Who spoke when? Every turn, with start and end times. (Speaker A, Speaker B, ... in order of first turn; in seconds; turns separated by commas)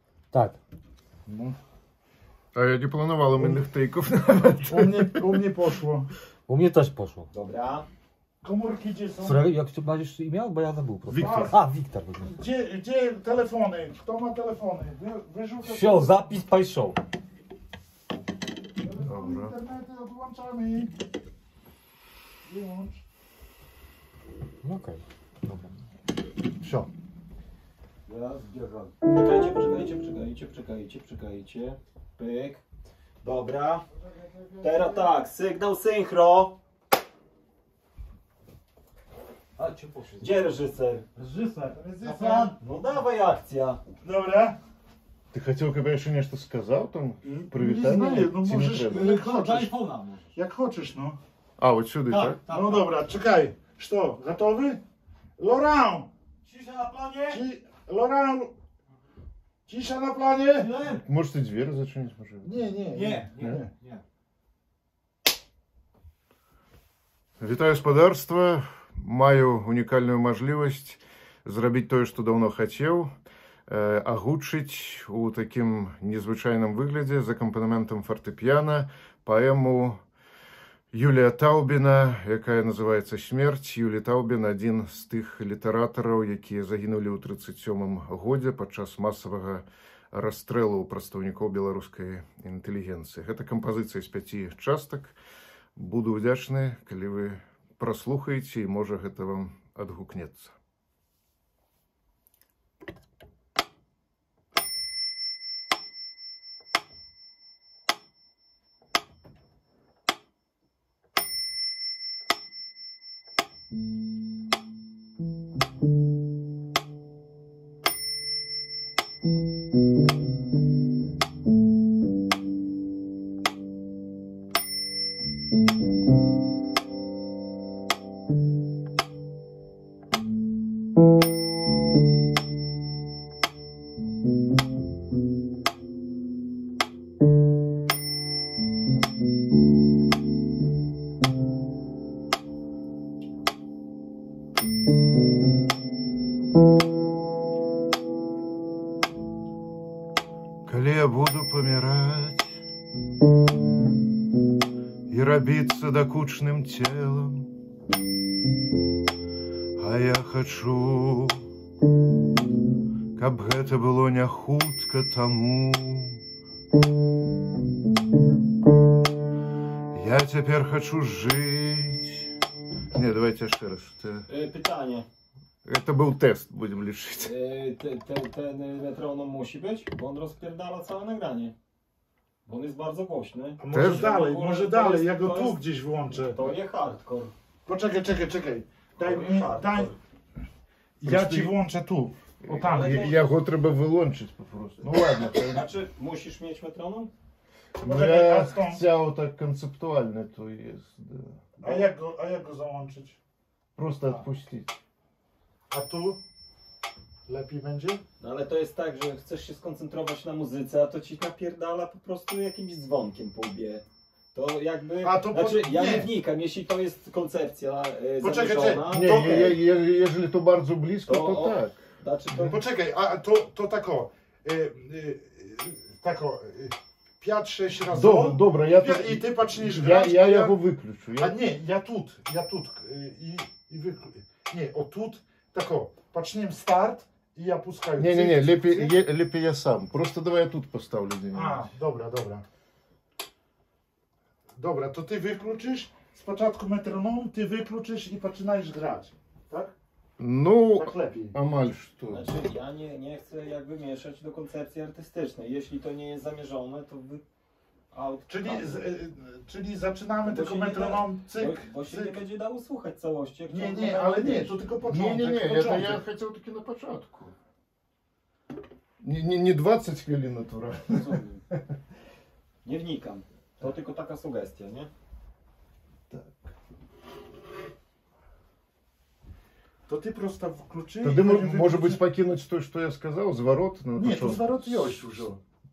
Speaker A: 0.3-0.6, Speaker B: 1.2-1.6, Speaker C: 2.5-5.2, Speaker B: 4.7-6.1, Speaker A: 6.5-7.3, Speaker D: 7.3-7.9, Speaker B: 8.4-9.4, Speaker A: 9.2-12.4, Speaker C: 11.1-11.5, Speaker B: 11.1-11.6, Speaker B: 12.2-16.1, Speaker A: 15.6-17.0, Speaker B: 18.8-20.9, Speaker C: 19.0-19.5, Speaker B: 22.4-23.0, Speaker A: 24.6-25.8, Speaker B: 26.6-26.9, Speaker A: 28.1-28.9, Speaker D: 29.1-32.6, Speaker D: 33.2-33.8, Speaker B: 34.0-35.1, Speaker D: 34.6-36.6, Speaker A: 39.5-40.6, Speaker D: 40.2-41.0, Speaker A: 41.1-41.8, Speaker B: 41.7-42.5, Speaker D: 42.0-43.8, Speaker B: 44.0-44.6, Speaker C: 45.3-49.1, Speaker B: 47.3-49.7, Speaker A: 48.8-50.3, Speaker B: 50.3-51.2, Speaker C: 51.6-52.4, Speaker A: 52.1-52.9, Speaker B: 52.5-54.8, Speaker B: 55.4-56.1, Speaker A: 56.4-57.4, Speaker B: 57.3-58.5, Speaker B: 59.7-60.7, Speaker A: 60.5-61.0, Speaker C: 60.9-62.6, Speaker B: 62.4-63.7, Speaker A: 62.9-64.0, Speaker C: 67.4-73.1, Speaker C: 73.7-80.0, Speaker C: 80.9-95.2, Speaker C: 95.8-100.5, Speaker C: 150.7-152.6, Speaker C: 155.1-157.5, Speaker C: 159.8-161.5, Speaker C: 163.2-166.2, Speaker C: 169.9-172.3, Speaker C: 172.9-174.3, Speaker D: 174.3-175.1, Speaker C: 175.7-177.3, Speaker D: 177.2-181.5, Speaker D: 182.5-185.6, Speaker B: 183.6-186.4, Speaker C: 183.7-184.1, Speaker D: 186.1-187.3, Speaker B: 187.7-189.9, Speaker D: 189.0-190.0, Speaker B: 191.0-193.2, Speaker C: 191.0-191.6, Speaker C: 192.4-195.7, Speaker D: 192.6-193.2, Speaker D: 195.4-197.1, Speaker B: 197.8-198.8, Speaker C: 197.8-201.5, Speaker B: 201.6-203.2, Speaker C: 203.8-204.8, Speaker B: 205.7-206.2, Speaker B: 207.3-208.0, Speaker D: 208.2-219.6, Speaker B: 215.0-216.1, Speaker B: 218.2-219.6, Speaker C: 218.9-221.8, Speaker D: 221.1-222.6, Speaker B: 222.4-230.6, Speaker C: 227.9-231.4, Speaker B: 231.2-238.9, Speaker C: 238.0-241.7, Speaker B: 241.3-242.4, Speaker B: 244.6-249.7, Speaker C: 250.2-252.2, Speaker B: 250.8-251.4, Speaker D: 252.1-257.2, Speaker D: 257.9-258.8, Speaker B: 258.3-262.2, Speaker D: 260.2-264.7, Speaker B: 263.5-266.0, Speaker C: 264.8-267.3, Speaker C: 269.0-271.6, Speaker D: 270.9-271.4, Speaker D: 272.6-274.9, Speaker C: 276.1-276.5, Speaker B: 279.9-282.0, Speaker C: 281.0-285.3, Speaker B: 283.9-285.4